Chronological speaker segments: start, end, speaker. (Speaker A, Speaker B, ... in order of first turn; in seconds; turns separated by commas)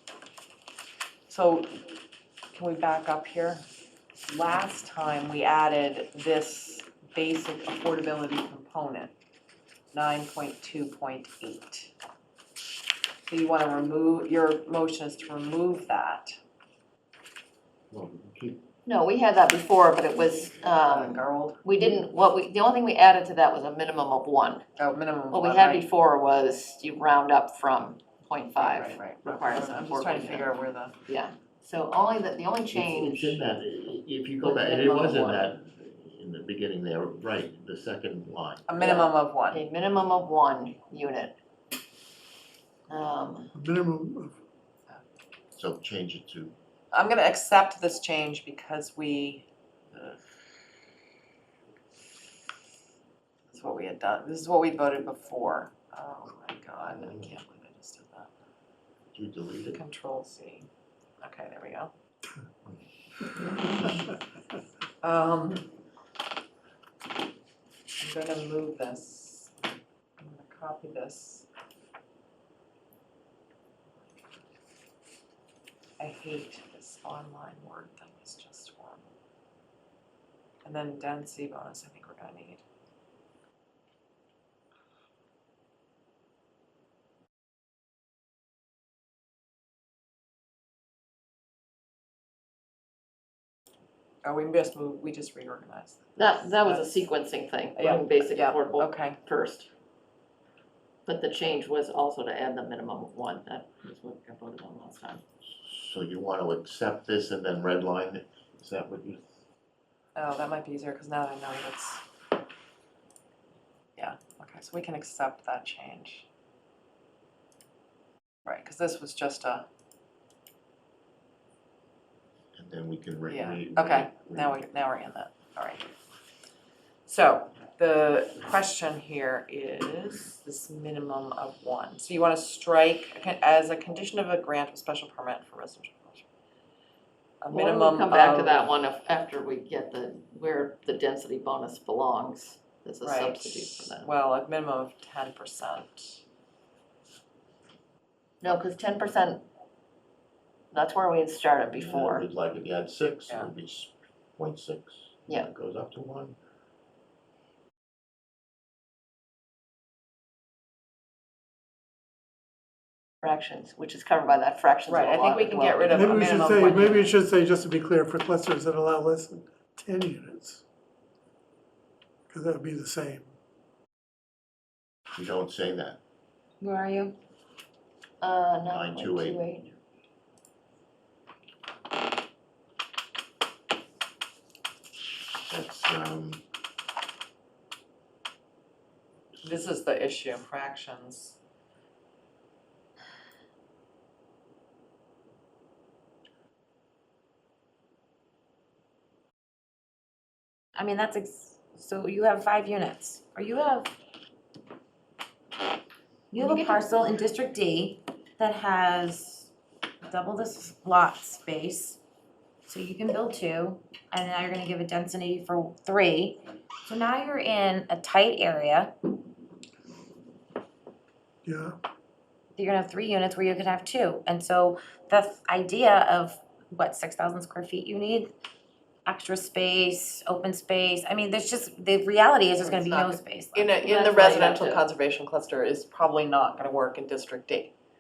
Speaker A: 1.3-1.8, Speaker A: 2.5-3.6, Speaker A: 4.2-9.1, Speaker A: 9.9-11.9, Speaker A: 13.3-16.4, Speaker B: 17.9-18.6, Speaker C: 18.9-24.6, Speaker A: 20.8-22.0, Speaker A: 24.8-25.8, Speaker C: 25.3-30.5, Speaker A: 28.6-30.9, Speaker C: 31.1-33.4, Speaker B: 32.7-38.7, Speaker C: 34.4-35.5, Speaker A: 38.7-39.6, Speaker C: 38.8-41.4, Speaker C: 42.9-43.5, Speaker D: 43.5-44.3, Speaker B: 45.5-46.5, Speaker A: 46.9-49.5, Speaker A: 53.5-58.3, Speaker B: 56.9-57.3, Speaker B: 59.1-59.8, Speaker A: 59.7-60.7, Speaker A: 61.2-61.9, Speaker B: 62.7-64.0, Speaker A: 65.0-65.7, Speaker A: 68.0-69.7, Speaker A: 70.2-71.5, Speaker A: 76.0-79.1, Speaker A: 80.6-82.6, Speaker A: 94.2-97.1, Speaker C: 96.2-99.7, Speaker A: 97.8-99.2, Speaker C: 101.0-105.2, Speaker B: 105.5-109.4, Speaker A: 110.1-112.0, Speaker A: 114.0-116.3, Speaker A: 118.5-119.7, Speaker B: 122.5-124.6, Speaker A: 123.3-125.9, Speaker A: 127.0-136.3, Speaker A: 137.4-138.6, Speaker C: 137.5-144.1, Speaker A: 143.0-146.2, Speaker C: 148.4-149.4, Speaker C: 150.7-152.3, Speaker B: 151.7-156.4, Speaker C: 163.2-166.3, Speaker A: 164.9-167.1, Speaker D: 165.9-170.6, Speaker D: 172.3-173.3, Speaker B: 175.2-176.0, Speaker E: 176.6-177.1, Speaker C: 178.2-179.7, Speaker B: 178.7-179.4, Speaker B: 185.5-186.4, Speaker A: 189.4-191.4, Speaker E: 200.8-203.9, Speaker E: 206.3-209.5, Speaker C: 206.4-206.7, Speaker E: 210.0-212.0, Speaker E: 212.7-218.9, Speaker D: 221.4-221.8, Speaker E: 222.6-228.3, Speaker E: 229.1-233.8, Speaker C: 232.6-233.1, Speaker A: 232.9-237.7, Speaker C: 233.8-234.8